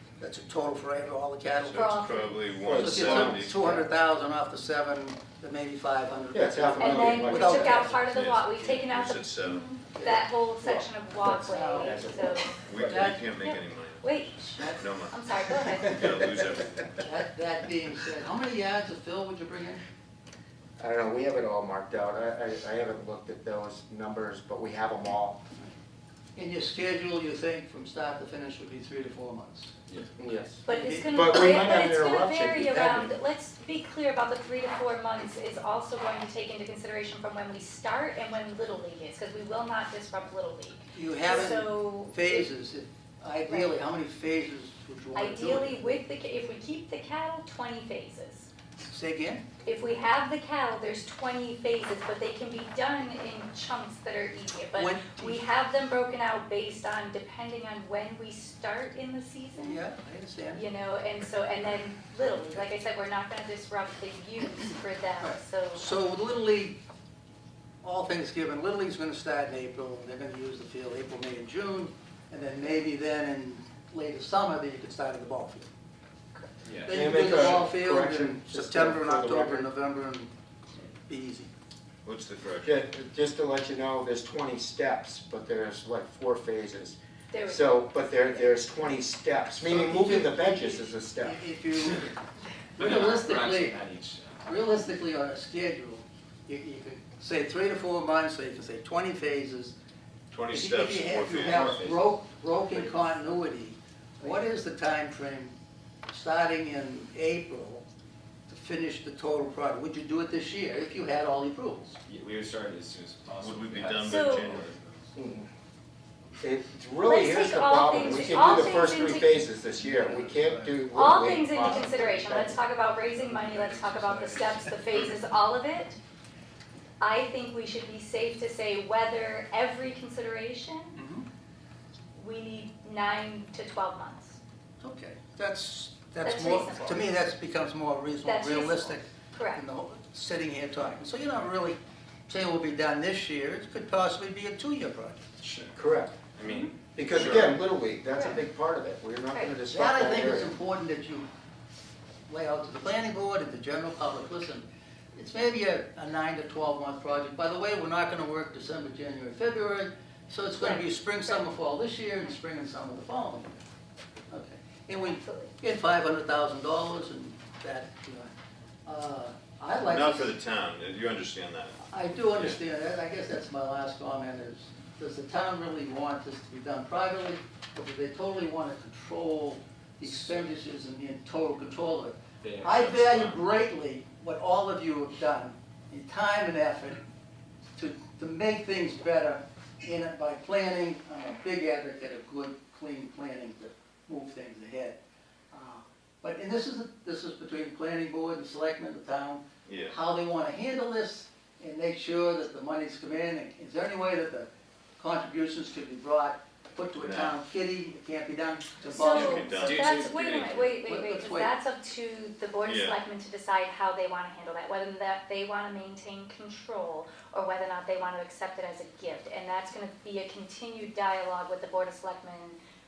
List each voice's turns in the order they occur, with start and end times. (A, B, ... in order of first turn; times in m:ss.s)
0:00.2-0:01.9 A
0:01.6-0:03.9 B
0:01.7-0:02.4 C
0:02.6-0:03.5 D
0:02.8-0:08.0 A
0:06.3-0:07.9 D
0:06.8-0:12.6 C
0:07.4-0:09.6 B
0:10.6-0:10.9 D
0:11.2-0:13.2 A
0:11.8-0:12.5 D
0:12.6-0:17.2 B
0:13.4-0:16.2 C
0:17.0-0:19.8 A
0:20.8-0:25.4 D
0:26.4-0:29.8 A
0:30.2-0:33.1 D
0:30.6-0:31.4 A
0:30.6-0:42.5 C
0:40.9-0:45.8 A
0:43.5-0:43.8 C
0:45.1-0:48.5 C
0:48.9-0:49.4 A
0:49.6-0:59.8 C
0:54.7-0:55.4 A
0:59.6-1:00.6 A
1:00.5-1:05.9 C
1:05.2-1:06.8 A
1:07.8-1:15.7 A
1:16.6-1:17.6 E
1:16.8-1:21.5 A
1:16.9-1:19.7 D
1:22.0-1:22.7 B
1:22.6-1:31.4 D
1:27.3-1:27.8 C
1:29.6-1:32.2 A
1:32.8-1:33.8 A
1:32.8-1:34.6 E
1:34.4-1:39.8 A
1:40.3-1:41.8 B
1:40.5-1:45.5 A
1:41.3-1:43.1 E
1:46.1-1:47.8 A
1:48.5-1:52.0 A
1:52.0-1:55.1 E
1:53.4-1:54.8 B
1:54.0-1:54.5 C
1:55.1-1:55.5 D
1:56.4-2:02.6 D
1:57.0-1:59.4 C
1:59.8-2:00.8 E
2:00.9-2:06.0 C
2:03.1-2:04.8 E
2:07.0-2:11.0 C
2:10.9-2:11.2 A
2:12.1-2:14.4 C
2:14.8-2:25.2 A
2:16.2-2:17.1 C
2:18.2-2:19.6 C
2:25.7-2:26.2 D
2:26.3-2:27.6 B
2:26.9-2:30.6 D
2:28.1-2:28.4 C
2:29.7-2:31.3 A
2:32.3-2:43.5 A
2:40.6-2:41.4 C
2:44.3-2:48.3 A
2:45.0-2:45.5 C
2:48.8-2:50.3 A
2:49.8-2:52.6 B
2:51.9-3:07.0 A
3:02.4-3:03.4 E
3:07.8-3:15.0 A
3:15.5-3:29.7 A
3:19.6-3:20.0 B
3:27.0-3:27.4 B
3:28.9-3:42.6 C
3:29.0-3:30.1 B
3:29.1-3:30.8 E
3:30.8-3:31.5 A
3:32.6-3:33.0 B